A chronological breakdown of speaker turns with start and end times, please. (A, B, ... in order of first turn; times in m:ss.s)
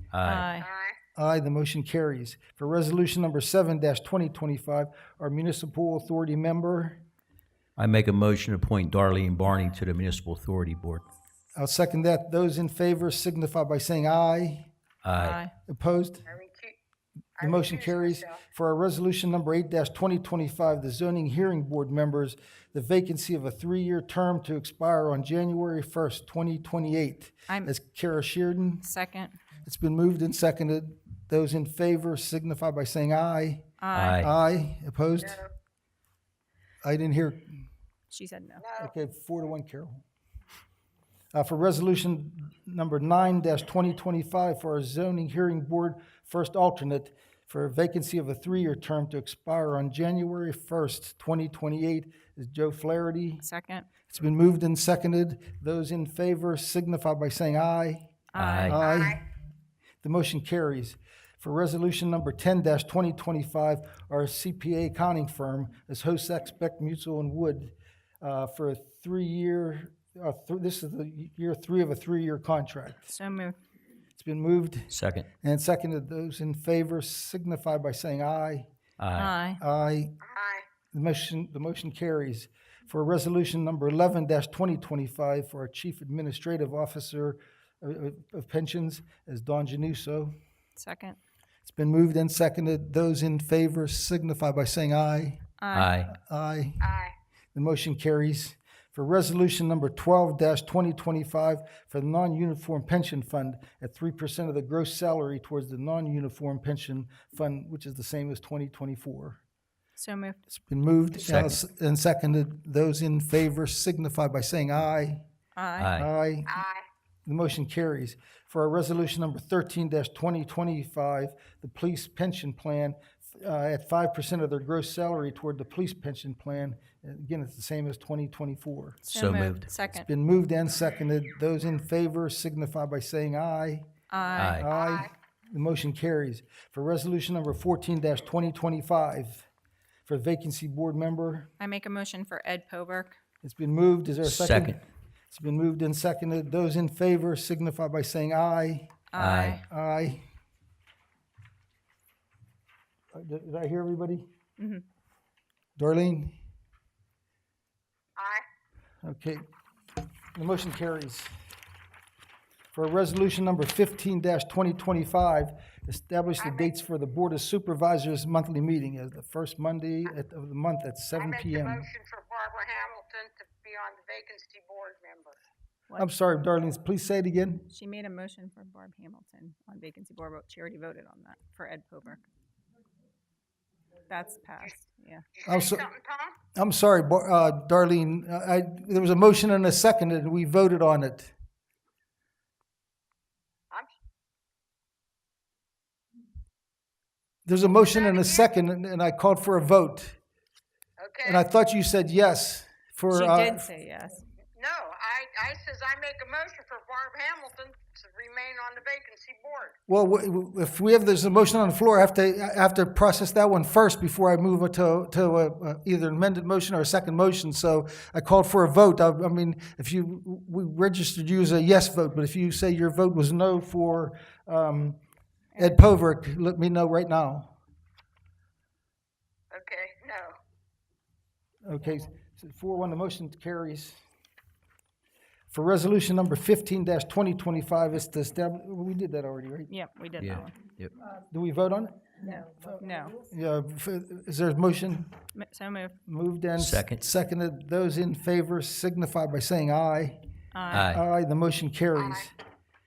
0:00.1-0:00.5 A
0:00.2-0:00.7 B
0:00.6-0:01.0 C
0:01.1-0:07.0 D
0:07.8-0:11.1 A
0:11.5-0:14.7 D
0:15.0-0:15.4 A
0:15.2-0:15.5 B
0:15.6-0:16.2 D
0:16.2-0:16.8 C
0:17.4-0:18.4 C
0:17.4-0:28.9 D
0:28.8-0:29.4 B
0:29.6-0:35.4 D
0:33.8-0:34.2 B
0:33.9-0:34.3 A
0:35.2-0:35.5 C
0:36.8-0:37.5 D
0:38.1-0:38.6 B
0:38.6-0:38.9 C
0:38.8-0:40.0 D
0:41.3-0:53.4 D
0:53.4-0:53.9 B
0:54.1-0:58.1 D
0:58.3-0:58.8 B
0:58.3-0:58.8 A
0:58.7-0:59.2 D
0:58.7-0:59.2 C
1:00.0-1:13.1 D
1:13.0-1:13.6 B
1:14.2-1:18.7 D
1:14.9-1:15.3 A
1:19.0-1:19.3 A
1:19.1-1:19.6 B
1:19.6-1:20.2 D
1:20.2-1:20.6 C
1:20.9-1:30.3 D
1:30.8-1:31.2 B
1:31.6-1:35.4 D
1:35.6-1:35.9 B
1:35.7-1:36.1 A
1:36.1-1:36.9 D
1:36.8-1:37.1 C
1:37.5-1:49.4 D
1:50.0-1:50.4 B
1:50.5-1:55.2 D
1:51.2-1:51.6 A
1:55.6-1:55.9 B
1:55.8-1:56.1 A
1:56.0-1:56.6 D
1:56.5-1:56.8 C
1:57.2-2:09.0 D
2:09.0-2:10.1 B
2:09.1-2:09.7 A
2:10.0-2:13.9 D
2:14.1-2:14.6 B
2:14.3-2:14.7 A
2:14.5-2:19.4 D
2:14.7-2:15.1 C
2:20.0-2:21.5 D
2:21.6-2:23.2 B
2:23.4-2:24.8 D
2:24.2-2:24.8 A
2:25.3-2:29.0 D
2:29.1-2:29.6 B
2:29.2-2:29.6 A
2:29.6-2:30.2 D
2:33.1-2:34.3 D
2:34.6-2:34.8 B
2:35.8-2:36.4 D
2:38.2-2:38.4 C
2:39.0-2:39.4 D
2:40.3-2:41.3 D
2:42.7-2:51.9 D
2:46.4-2:46.7 C
2:51.1-2:55.4 C
2:56.0-2:57.7 D
2:57.7-3:02.2 B
3:04.1-3:05.3 B
3:05.4-3:06.4 C
3:05.4-3:05.8 D
3:06.5-3:11.3 D
3:17.4-3:20.2 D
3:17.6-3:18.5 C
3:21.0-3:21.4 C
3:21.2-3:23.6 D
3:23.1-3:24.2 B
3:24.6-3:29.8 C
3:29.9-3:45.0 D
3:45.5-3:45.8 B
3:45.6-3:47.5 D
3:49.5-3:50.3 C
3:51.6-3:54.0 D
3:55.5-3:59.7 D
3:59.7-4:00.5 B
4:00.2-4:00.9 A
4:01.3-4:05.1 D
4:02.3-4:03.2 B
4:05.3-4:05.9 B
4:06.1-4:10.2 D
4:06.6-4:07.0 A
4:10.5-4:10.9 B
4:10.7-4:11.0 A
4:10.7-4:12.3 D
4:11.9-4:12.3 C